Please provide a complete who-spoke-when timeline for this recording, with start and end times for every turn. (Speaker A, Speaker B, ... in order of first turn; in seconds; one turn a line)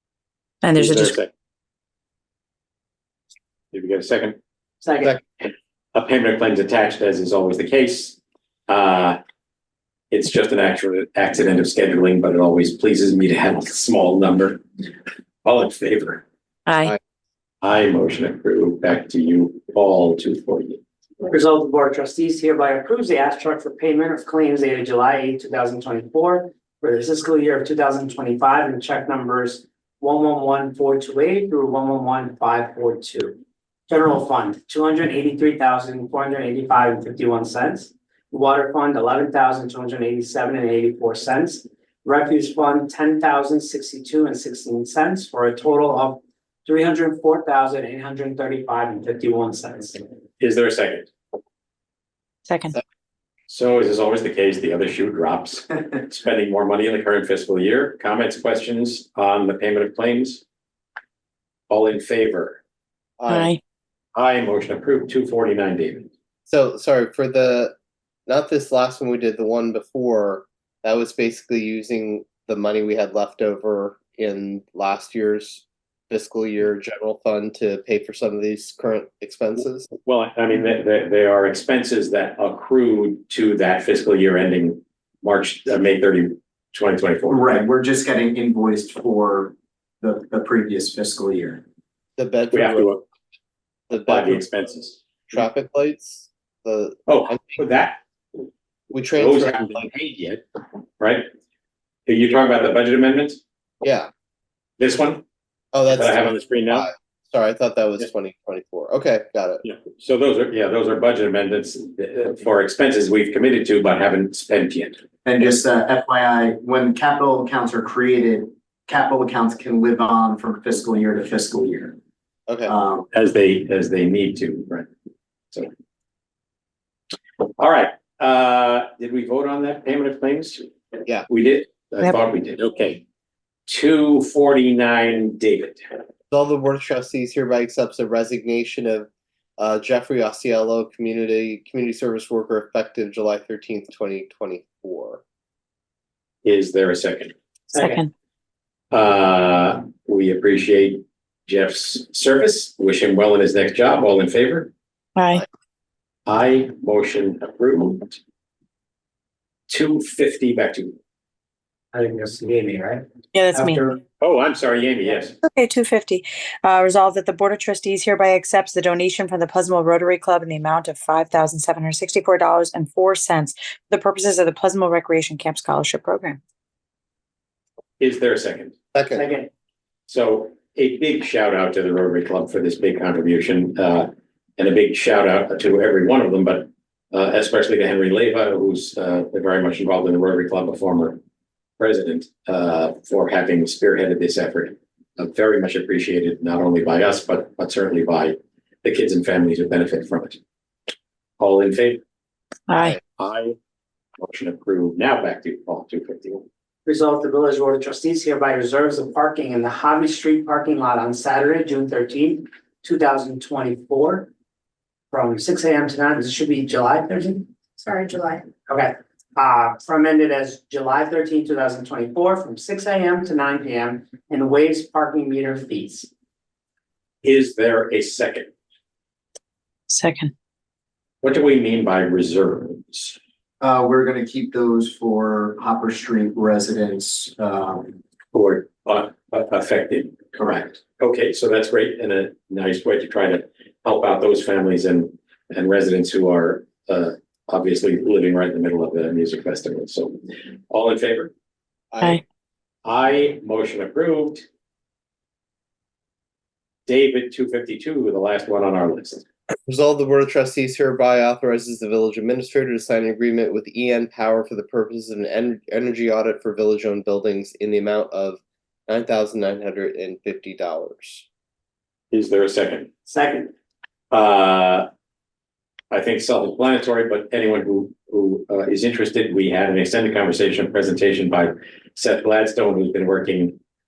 Speaker A: 0.6-1.2
Speaker B: 0.7-1.3
Speaker B: 3.7-4.4
Speaker C: 4.8-5.2
Speaker B: 5.4-9.2
Speaker B: 10.1-14.6
Speaker B: 15.4-16.2
Speaker A: 16.7-16.9
Speaker B: 17.6-20.8
Speaker C: 21.2-50.0
Speaker B: 50.4-51.1
Speaker A: 52.5-52.8
Speaker B: 53.5-60.4
Speaker B: 61.7-62.6
Speaker D: 63.2-63.5
Speaker A: 63.3-63.6
Speaker B: 64.2-66.1
Speaker D: 66.5-67.8
Speaker D: 68.3-79.9
Speaker B: 80.1-87.5
Speaker E: 87.3-91.6
Speaker D: 92.2-93.0
Speaker B: 92.5-93.0
Speaker D: 93.9-94.5
Speaker B: 93.9-95.0
Speaker D: 95.3-97.6
Speaker B: 97.1-98.0
Speaker D: 98.9-99.9
Speaker B: 99.2-100.4
Speaker B: 101.0-101.3
Speaker B: 102.1-103.4
Speaker D: 103.8-104.1
Speaker B: 104.8-105.2
Speaker D: 105.7-109.6
Speaker B: 105.9-106.9
Speaker B: 109.6-115.0
Speaker E: 115.2-122.0
Speaker D: 122.5-122.7
Speaker E: 122.7-123.1
Speaker B: 123.1-124.9
Speaker B: 127.6-130.7
Speaker B: 131.3-133.0
Speaker B: 133.7-135.9
Speaker D: 136.3-145.2
Speaker B: 146.4-147.3
Speaker C: 147.7-148.0
Speaker A: 147.7-148.1
Speaker B: 148.9-154.7
Speaker A: 155.2-155.4
Speaker B: 156.2-158.2
Speaker B: 159.7-160.9
Speaker C: 161.9-164.0
Speaker A: 163.3-163.8
Speaker B: 164.2-165.3
Speaker A: 165.4-176.4
Speaker B: 178.0-178.8
Speaker D: 178.9-179.2
Speaker C: 179.1-179.5
Speaker B: 180.1-191.2
Speaker B: 191.8-200.4
Speaker B: 201.4-202.0
Speaker A: 202.7-203.0
Speaker B: 203.2-203.6
Speaker B: 204.2-206.4
Speaker C: 206.8-214.3
Speaker C: 215.1-226.1
Speaker B: 227.2-228.5
Speaker A: 229.9-230.3
Speaker B: 231.2-233.2
Speaker E: 233.6-238.0
Speaker B: 238.3-250.2
Speaker B: 250.7-251.3
Speaker D: 251.9-252.2
Speaker B: 252.8-254.4
Speaker B: 256.9-259.2
Speaker D: 259.7-271.2
Speaker B: 272.1-272.9
Speaker C: 273.1-273.5
Speaker B: 274.1-274.9
Speaker B: 275.9-283.6